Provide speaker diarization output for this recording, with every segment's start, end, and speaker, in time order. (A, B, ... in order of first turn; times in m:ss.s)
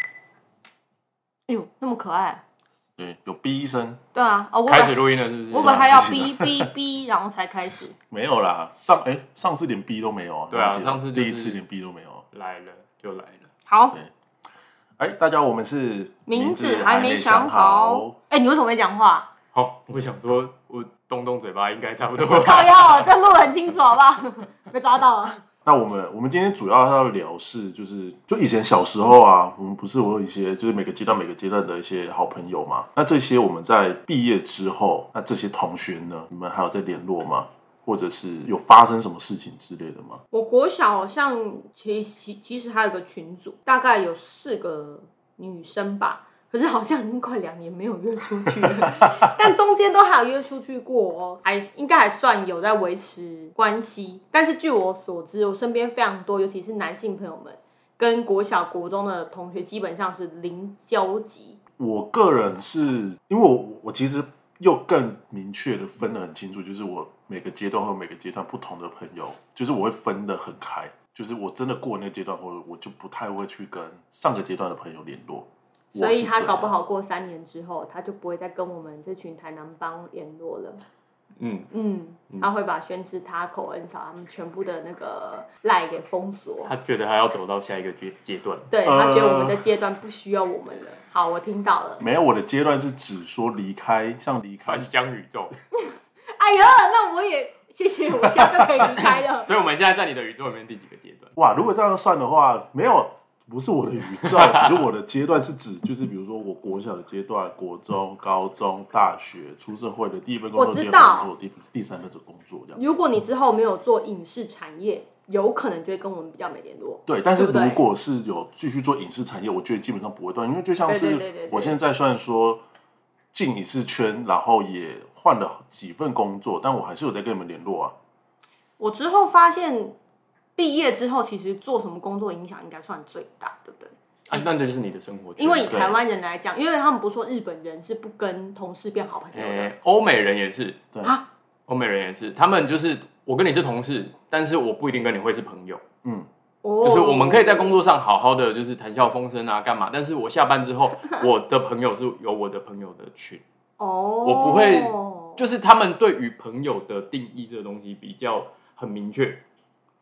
0:01.5-0:02.4 A
0:03.0-0:04.0 B
0:04.1-0:08.0 A
0:04.7-0:06.0 C
0:05.5-0:06.7 B
0:08.1-0:12.2 B
0:10.5-0:11.6 C
0:12.3-0:13.5 C
0:13.6-0:14.0 A
0:15.0-0:18.2 B
0:16.3-0:19.3 A
0:19.5-0:23.1 C
0:22.3-0:25.4 A
0:25.6-0:40.2 B
0:40.3-1:01.6 A
0:48.6-0:49.3 B
1:01.8-1:16.7 B
1:15.9-1:20.8 A
1:21.4-1:21.7 C
1:21.7-1:26.7 A
1:26.6-1:28.7 C
1:28.7-1:32.0 A
1:28.8-1:29.6 B
1:32.0-1:34.9 B
1:34.6-1:35.6 C
1:35.7-1:39.5 A
1:38.3-1:38.6 B
1:39.0-1:41.3 C
1:41.4-1:52.8 B
1:44.2-1:44.8 C
1:50.6-1:51.3 A
1:52.7-1:57.8 A
1:57.0-2:02.6 B
2:00.8-2:01.8 A
2:03.3-2:07.9 B
2:08.8-2:10.0 A
2:10.6-2:14.5 A
2:14.3-2:15.9 C
2:15.4-2:19.7 A
2:15.7-2:16.0 B
2:19.3-2:20.8 C
2:21.7-2:25.8 C
2:26.6-2:27.8 A
2:26.8-2:33.4 C
2:33.8-2:35.4 A
2:34.2-2:39.4 C